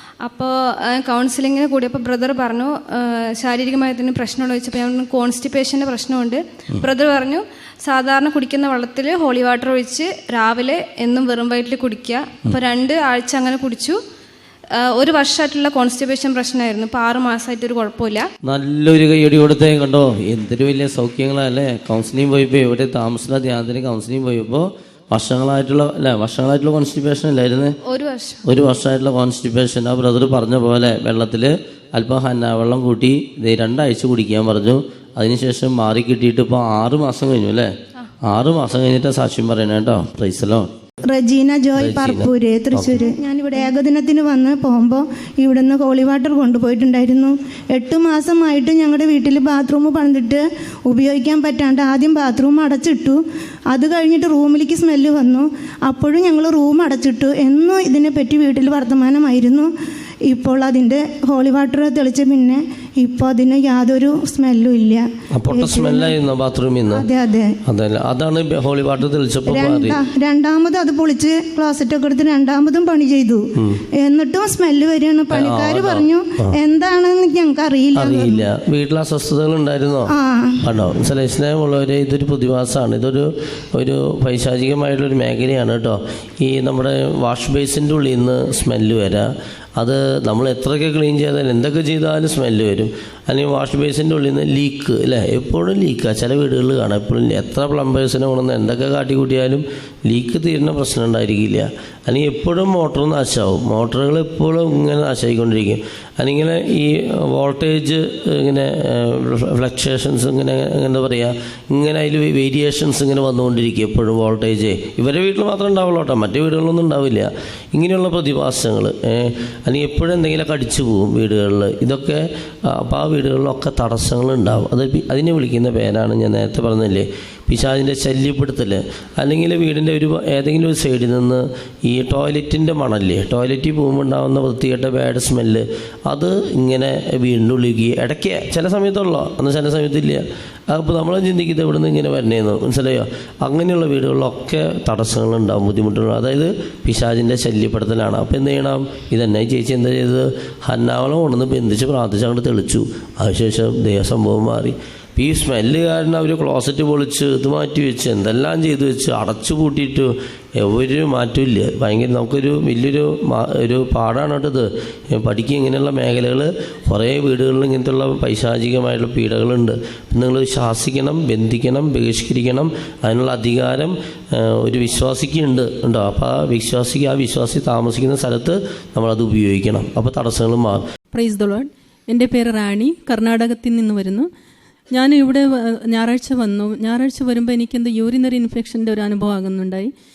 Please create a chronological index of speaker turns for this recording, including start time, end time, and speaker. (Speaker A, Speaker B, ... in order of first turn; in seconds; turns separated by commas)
Speaker A: 0.2-14.0, Speaker A: 14.8-18.2, Speaker B: 18.4-27.8, Speaker A: 27.9-28.4, Speaker B: 28.5-37.7, Speaker B: 38.2-40.7, Speaker C: 41.1-59.7, Speaker B: 41.8-43.0, Speaker C: 60.3-66.2, Speaker B: 65.3-67.1, Speaker C: 66.9-67.5, Speaker B: 67.7-70.0, Speaker C: 69.5-73.4, Speaker B: 73.6-73.8, Speaker C: 74.0-78.5, Speaker B: 75.3-76.6, Speaker B: 78.0-80.1, Speaker C: 80.1-80.6, Speaker B: 80.6-180.8, Speaker D: 181.1-184.3, Speaker D: 184.9-189.9